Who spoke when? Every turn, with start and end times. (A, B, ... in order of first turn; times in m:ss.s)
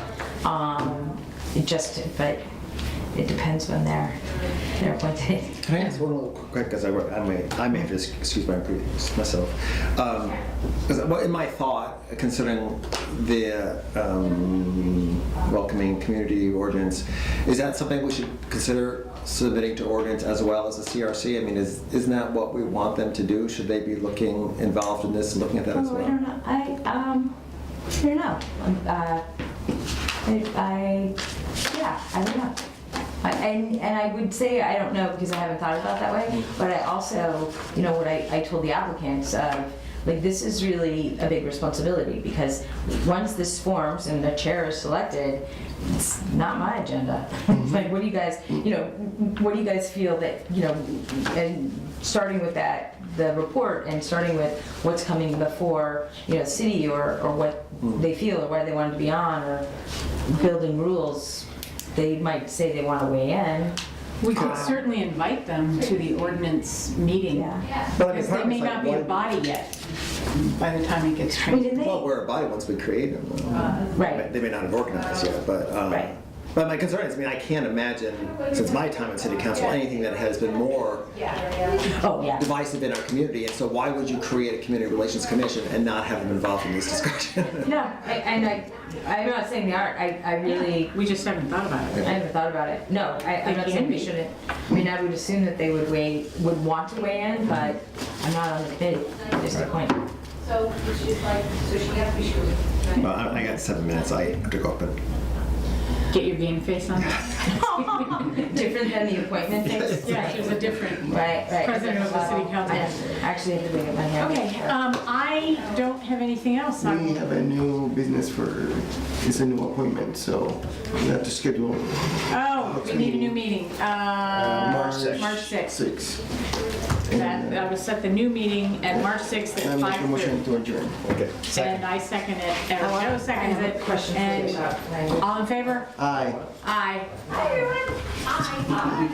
0:00.4-0:02.4 A
0:03.1-0:04.2 A
0:04.7-0:05.7 A
0:05.6-0:26.2 B
0:25.7-0:27.3 A
0:27.9-0:29.2 A
0:30.2-0:31.2 A
0:31.7-0:32.6 A
0:33.2-0:59.7 A
1:00.2-1:03.8 A
1:04.2-1:11.9 C
1:04.3-1:04.8 A
1:04.3-1:04.7 B
1:07.3-1:07.7 A
1:08.0-1:09.3 B
1:11.5-1:12.1 A
1:11.7-1:21.2 B
1:13.9-1:14.3 A
1:15.9-1:16.1 A
1:21.2-1:21.8 D
1:21.8-1:22.4 A
1:22.3-1:27.8 B
1:27.6-1:28.1 C
1:27.8-1:31.0 A
1:30.4-1:32.2 C
1:32.0-1:40.0 A
1:33.4-1:34.1 C
1:40.5-1:42.9 D
1:42.9-1:45.0 B
1:46.1-1:48.4 C
1:47.4-1:54.7 A
1:49.7-1:50.5 B
1:49.8-1:53.0 C
1:54.2-1:57.3 C
1:56.8-2:03.4 E
2:02.3-2:05.8 C
2:04.2-2:06.3 E
2:07.0-2:07.7 E
2:07.1-2:10.5 C
2:08.9-2:11.0 E
2:11.0-2:11.8 B
2:11.5-2:15.9 C
2:12.8-2:15.3 A
2:16.0-2:16.4 E
2:16.0-2:16.4 B
2:16.6-2:17.6 C
2:17.3-2:17.7 A
2:18.6-2:18.9 C